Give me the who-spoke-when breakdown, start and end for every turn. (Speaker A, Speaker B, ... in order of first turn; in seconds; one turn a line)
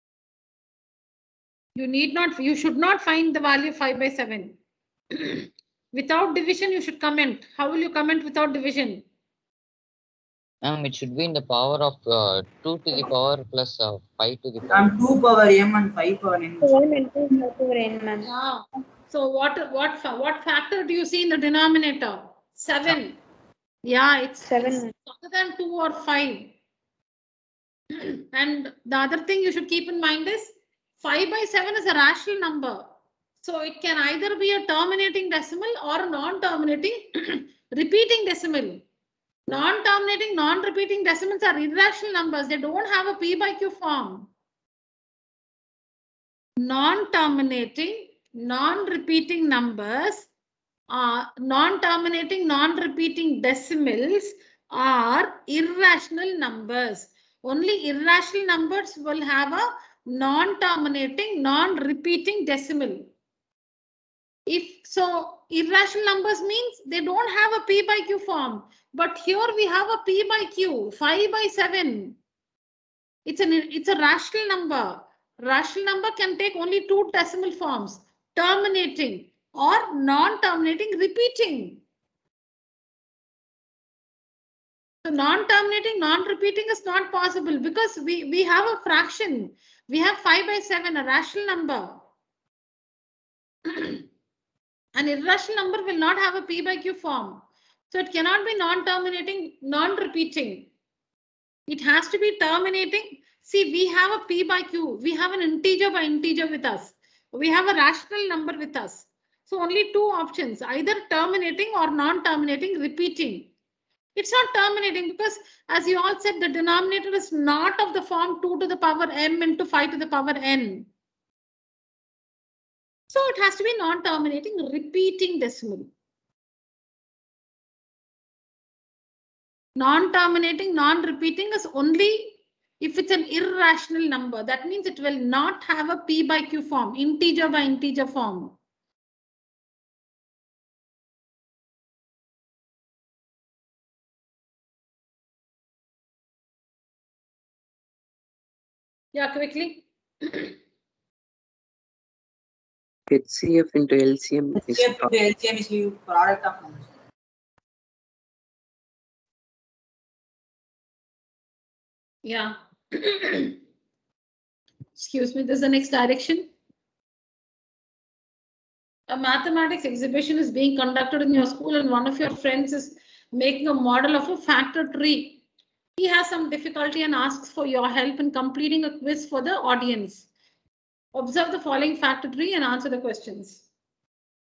Speaker A: 1.8-4.6
Speaker A: 5.1-9.0
Speaker B: 10.6-14.9
Speaker C: 14.7-16.7
Speaker D: 16.6-18.3
Speaker A: 18.2-23.2
Speaker A: 23.9-26.5
Speaker D: 24.4-24.9
Speaker A: 28.0-32.9
Speaker A: 33.4-38.8
Speaker A: 39.5-44.3
Speaker A: 46.6-50.3
Speaker A: 50.9-63.1
Speaker A: 64.5-72.2
Speaker A: 73.2-81.8
Speaker A: 85.0-92.0
Speaker A: 93.7-94.0
Speaker A: 94.9-100.7
Speaker A: 101.7-113.5
Speaker A: 114.1-120.9
Speaker A: 123.1-125.9
Speaker A: 129.8-138.6
Speaker A: 149.1-150.5
Speaker E: 153.1-155.1
Speaker C: 154.6-156.9
Speaker A: 162.2-163.6
Speaker A: 164.9-166.5
Speaker A: 169.1-175.4
Speaker A: 176.0-180.3
Speaker A: 181.1-183.6